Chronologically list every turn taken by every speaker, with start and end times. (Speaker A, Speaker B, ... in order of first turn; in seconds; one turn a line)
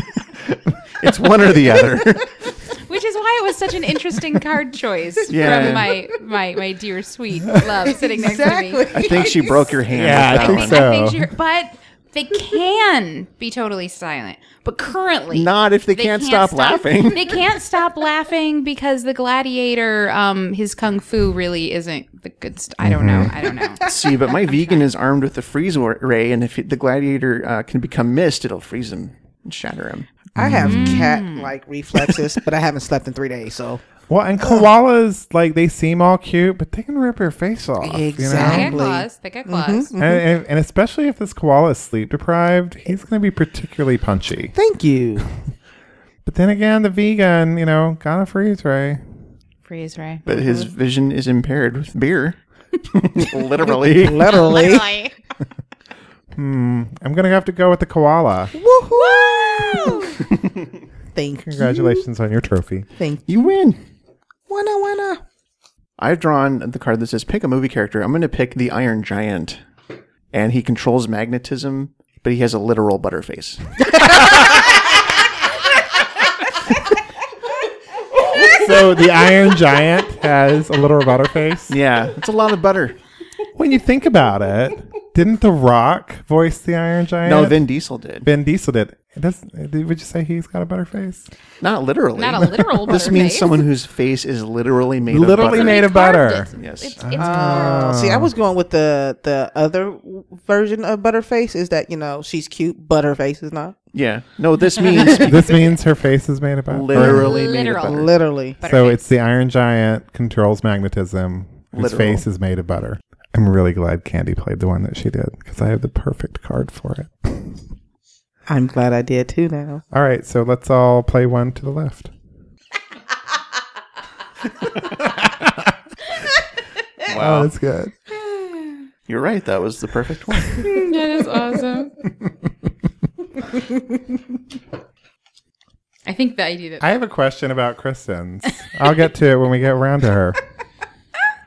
Speaker A: 1.0-2.5
Speaker B: 2.9-9.0
Speaker A: 5.3-6.0
Speaker C: 7.8-9.8
Speaker A: 8.9-10.9
Speaker D: 9.9-11.3
Speaker B: 10.2-24.9
Speaker A: 15.3-17.4
Speaker D: 22.8-23.3
Speaker C: 23.7-24.1
Speaker A: 23.8-30.1
Speaker C: 30.4-33.8
Speaker D: 30.4-31.1
Speaker B: 30.6-31.5
Speaker D: 34.1-38.8
Speaker C: 37.8-40.2
Speaker B: 38.3-39.9
Speaker D: 40.0-44.5
Speaker C: 44.5-45.2
Speaker D: 46.2-49.0
Speaker B: 49.6-50.3
Speaker A: 50.3-54.5
Speaker C: 53.6-55.0
Speaker B: 54.2-55.1
Speaker D: 56.4-58.5
Speaker C: 58.5-60.2
Speaker B: 59.0-60.2
Speaker C: 61.1-62.0
Speaker D: 61.5-62.9
Speaker A: 63.3-63.8
Speaker C: 64.5-65.2
Speaker A: 66.0-69.6
Speaker A: 70.3-73.6
Speaker D: 74.1-74.5
Speaker D: 78.3-81.8
Speaker A: 81.7-83.0
Speaker D: 83.6-87.6
Speaker A: 87.2-88.3
Speaker D: 88.2-91.3
Speaker A: 91.6-95.9
Speaker B: 92.2-93.6
Speaker D: 95.1-98.3
Speaker B: 95.4-97.9
Speaker A: 96.6-97.0
Speaker C: 97.2-103.8
Speaker A: 103.9-105.6
Speaker D: 105.1-107.4
Speaker A: 106.7-108.1
Speaker B: 106.9-109.0
Speaker C: 107.0-108.6
Speaker D: 108.6-117.6
Speaker A: 111.7-112.2
Speaker C: 118.5-119.8
Speaker D: 119.9-122.1
Speaker A: 127.0-127.5
Speaker D: 127.1-128.0
Speaker A: 129.1-130.8
Speaker B: 130.6-131.9
Speaker B: 136.1-136.9
Speaker D: 136.8-140.4